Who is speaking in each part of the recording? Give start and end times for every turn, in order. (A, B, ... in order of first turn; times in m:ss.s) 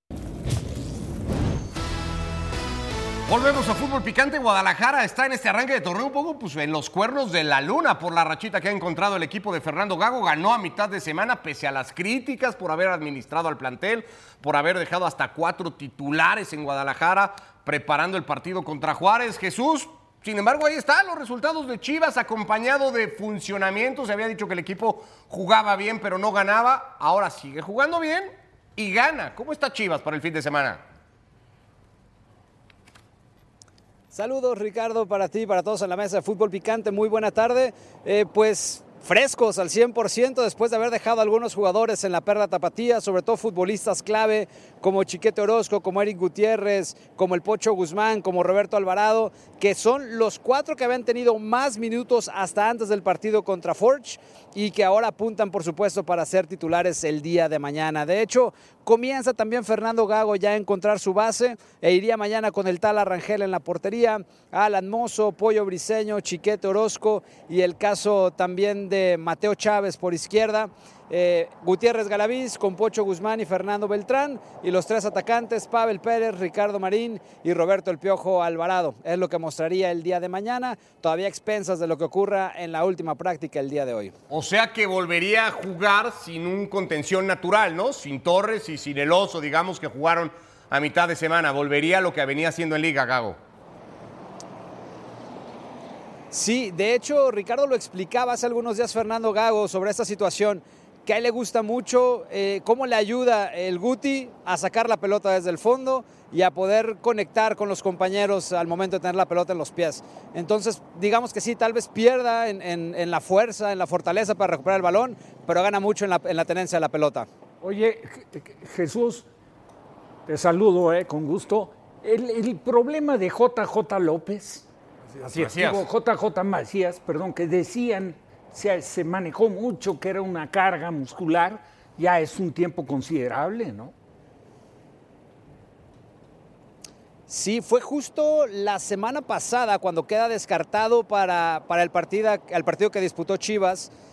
0:03.3-0:30.8 A
0:34.1-1:24.1 B
1:24.3-1:33.4 A
1:36.3-1:57.3 B
1:57.6-1:59.3 C
2:00.3-2:04.7 C
2:05.2-2:13.9 C
2:05.3-2:05.8 A
2:17.3-2:23.9 B